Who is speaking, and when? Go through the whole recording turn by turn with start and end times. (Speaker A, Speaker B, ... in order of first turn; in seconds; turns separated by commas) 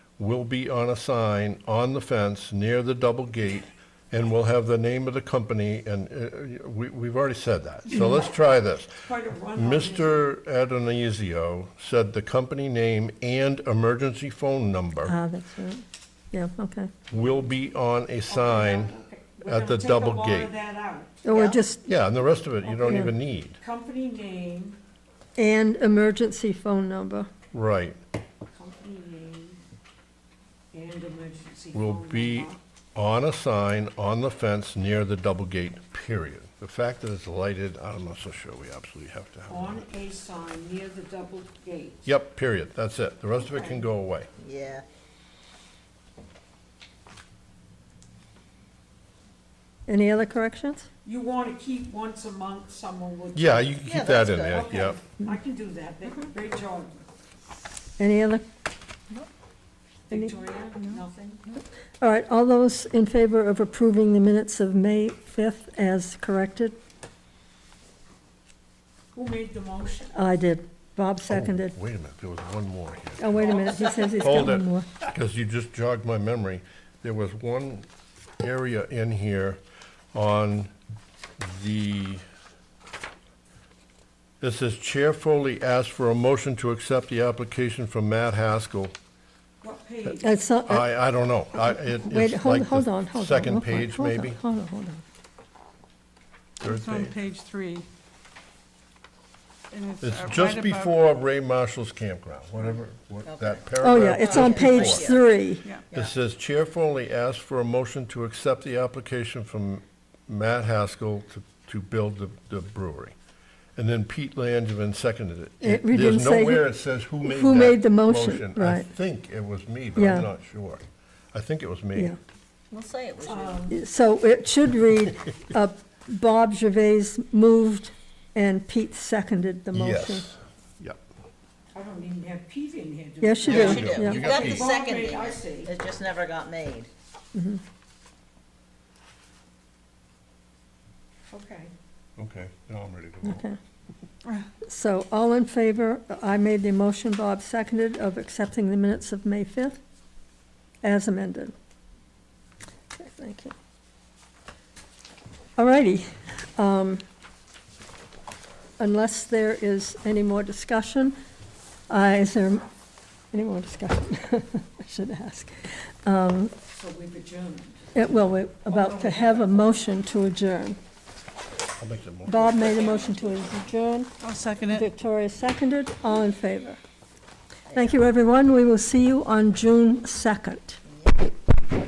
Speaker A: 0.2-15.1, Speaker B: 9.0-10.3, Speaker C: 15.0-16.9, Speaker A: 17.1-20.5, Speaker B: 18.3-21.2, Speaker C: 21.2-21.8, Speaker A: 21.8-23.6, Speaker B: 22.6-24.8, Speaker C: 22.8-23.1, Speaker C: 25.4-27.3, Speaker A: 27.5-28.0, Speaker B: 28.5-29.6, Speaker B: 30.7-32.6, Speaker A: 31.7-39.9, Speaker B: 39.5-42.0, Speaker A: 42.0-44.3, Speaker B: 43.4-43.9, Speaker D: 44.4-44.8, Speaker C: 49.9-50.9, Speaker B: 51.0-53.8, Speaker A: 53.3-55.0, Speaker D: 53.8-54.8, Speaker B: 54.4-57.0, Speaker C: 58.0-58.4, Speaker B: 60.1-61.4, Speaker C: 62.0-66.8, Speaker B: 69.1-70.2, Speaker C: 70.1-71.8, Speaker A: 71.3-73.6, Speaker C: 73.2-74.9, Speaker B: 73.4-74.4, Speaker A: 74.2-77.9, Speaker A: 78.4-79.6, Speaker A: 80.1-80.7, Speaker A: 81.4-82.2, Speaker A: 84.4-88.9, Speaker B: 89.6-90.3, Speaker C: 90.2-90.9, Speaker A: 90.7-94.4, Speaker C: 91.5-95.0, Speaker E: 96.6-97.9, Speaker A: 96.6-97.1, Speaker E: 99.7-101.0, Speaker A: 100.0-105.1, Speaker D: 103.2-105.2, Speaker C: 103.8-105.6, Speaker A: 105.9-113.1, Speaker A: 113.8-122.2, Speaker C: 115.6-118.9, Speaker C: 120.0-120.3, Speaker D: 122.7-123.7, Speaker B: 123.2-123.8, Speaker C: 123.7-130.3, Speaker A: 129.7-131.0, Speaker B: 131.7-135.7, Speaker C: 133.2-134.3, Speaker A: 133.4-134.7, Speaker D: 133.5-136.9, Speaker C: 137.3-137.6, Speaker B: 141.3-141.7, Speaker A: 142.2-143.4, Speaker C: 143.2-143.6, Speaker C: 144.6-149.8, Speaker C: 150.8-151.5, Speaker C: 152.9-153.5, Speaker C: 155.6-157.0, Speaker C: 158.8-161.1, Speaker C: 161.9-162.6, Speaker C: 163.3-166.5, Speaker B: 166.7-167.8, Speaker C: 167.9-170.8, Speaker B: 168.7-169.7, Speaker A: 171.8-172.5, Speaker C: 172.2-174.1, Speaker B: 172.4-173.1, Speaker E: 174.2-174.8, Speaker C: 174.7-176.8, Speaker C: 177.7-180.8